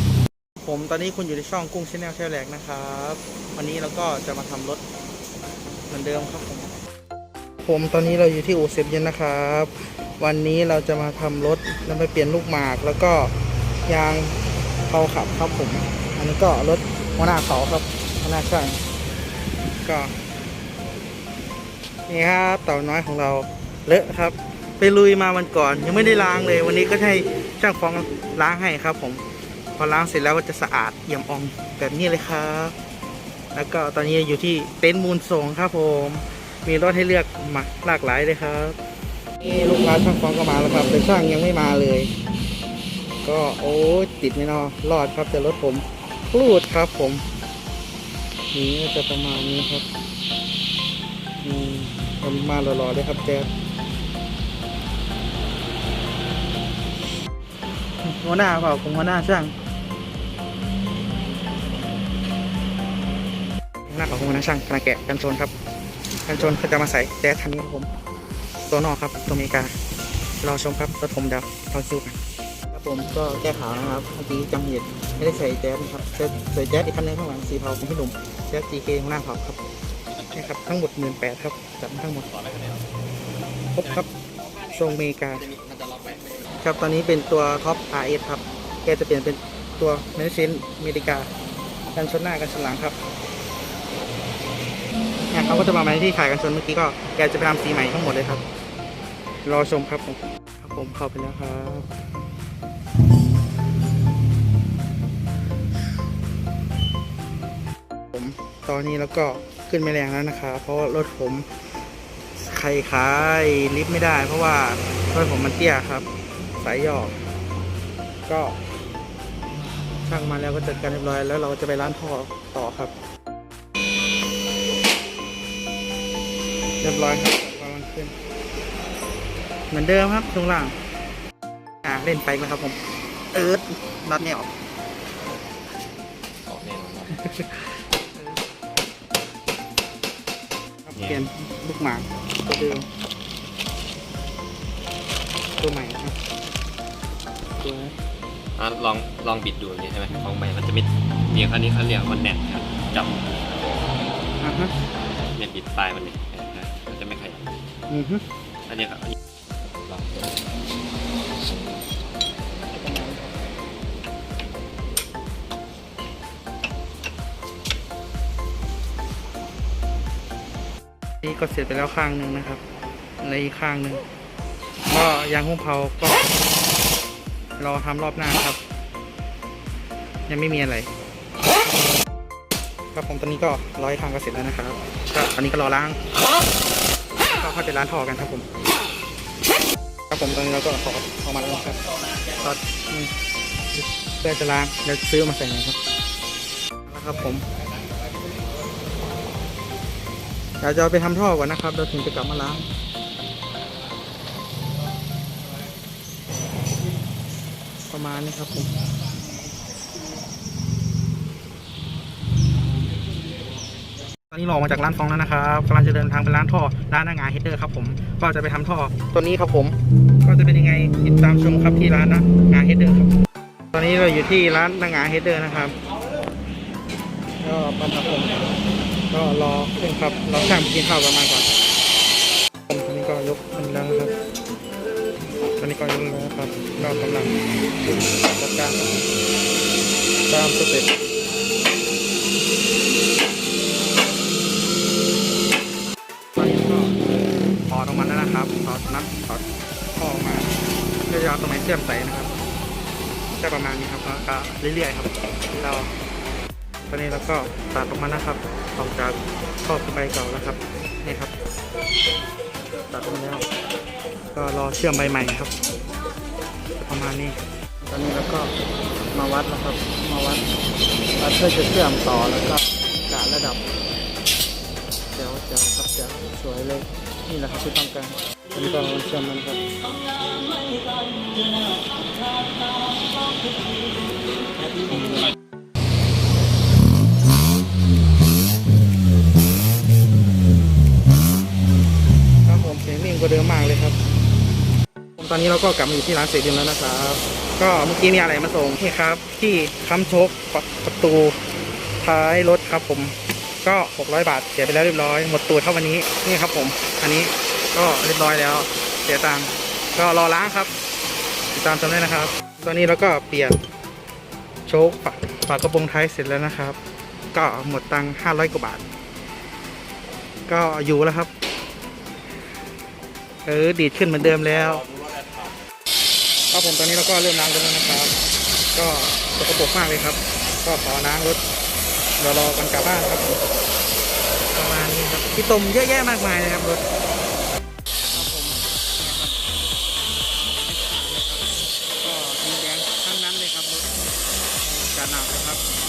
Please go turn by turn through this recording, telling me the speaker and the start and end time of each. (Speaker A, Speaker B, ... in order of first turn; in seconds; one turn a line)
Speaker A: 0.6-4.8
Speaker A: 5.9-6.7
Speaker A: 7.6-13.3
Speaker A: 13.8-14.3
Speaker A: 14.9-18.8
Speaker A: 19.8-20.1
Speaker A: 22.1-29.2
Speaker A: 29.8-32.7
Speaker A: 33.5-38.8
Speaker A: 39.4-42.1
Speaker A: 43.2-47.2
Speaker A: 48.5-49.8
Speaker A: 51.4-53.5
Speaker A: 58.0-59.5
Speaker A: 63.9-65.5
Speaker A: 66.2-67.9
Speaker A: 68.7-69.7
Speaker A: 70.4-72.2
Speaker A: 72.7-79.6
Speaker A: 80.3-82.3
Speaker B: 82.3-82.8
Speaker A: 83.7-84.1
Speaker A: 84.7-85.5
Speaker B: 85.5-86.4
Speaker A: 86.6-91.3
Speaker A: 91.9-93.0
Speaker A: 95.3-98.4
Speaker A: 99.4-101.9
Speaker A: 108.1-111.5
Speaker A: 112.4-116.1
Speaker A: 116.6-117.2
Speaker A: 118.3-118.6
Speaker A: 120.0-122.9
Speaker A: 126.8-128.1
Speaker A: 129.7-130.7
Speaker A: 131.8-132.8
Speaker A: 133.3-134.5
Speaker B: 136.5-137.2
Speaker A: 137.1-138.4
Speaker A: 140.8-142.8
Speaker B: 140.9-141.2
Speaker A: 145.6-146.2
Speaker A: 147.6-147.9
Speaker B: 148.6-153.7
Speaker A: 154.4-154.7
Speaker B: 155.2-157.5
Speaker A: 157.9-158.2
Speaker B: 158.7-160.4
Speaker B: 161.4-162.7
Speaker A: 162.7-163.3
Speaker A: 171.2-172.6
Speaker A: 173.2-174.0
Speaker A: 174.9-176.2
Speaker A: 177.6-178.6
Speaker A: 180.3-180.9
Speaker A: 181.6-182.0
Speaker A: 182.9-186.0
Speaker A: 187.3-188.4
Speaker A: 190.1-193.1
Speaker A: 193.7-195.8
Speaker A: 196.8-197.4
Speaker A: 200.6-202.7
Speaker A: 207.9-208.7
Speaker A: 214.3-223.1
Speaker A: 223.7-225.7
Speaker A: 227.4-228.4
Speaker A: 229.1-231.5
Speaker A: 232.7-234.1
Speaker A: 235.6-237.3
Speaker A: 238.3-238.9
Speaker A: 240.3-240.9
Speaker A: 246.4-246.9
Speaker A: 247.7-249.4
Speaker A: 250.0-250.5
Speaker A: 251.1-252.3
Speaker A: 253.4-255.9
Speaker A: 256.9-261.3
Speaker A: 262.9-263.4
Speaker A: 264.3-265.5
Speaker A: 266.8-268.5
Speaker A: 269.1-270.4
Speaker A: 271.2-273.7
Speaker A: 275.1-279.6
Speaker A: 284.9-285.3
Speaker A: 292.4-294.0
Speaker A: 295.2-301.4
Speaker A: 302.0-310.7
Speaker A: 311.5-313.6
Speaker A: 314.6-316.8
Speaker A: 317.3-318.8
Speaker A: 320.5-321.3
Speaker A: 323.4-324.8
Speaker B: 324.9-325.5
Speaker A: 326.5-328.2
Speaker A: 328.7-331.4
Speaker A: 332.2-333.4
Speaker A: 334.5-336.8
Speaker A: 338.1-339.4
Speaker A: 340.3-341.5
Speaker A: 342.0-343.9
Speaker A: 344.6-345.6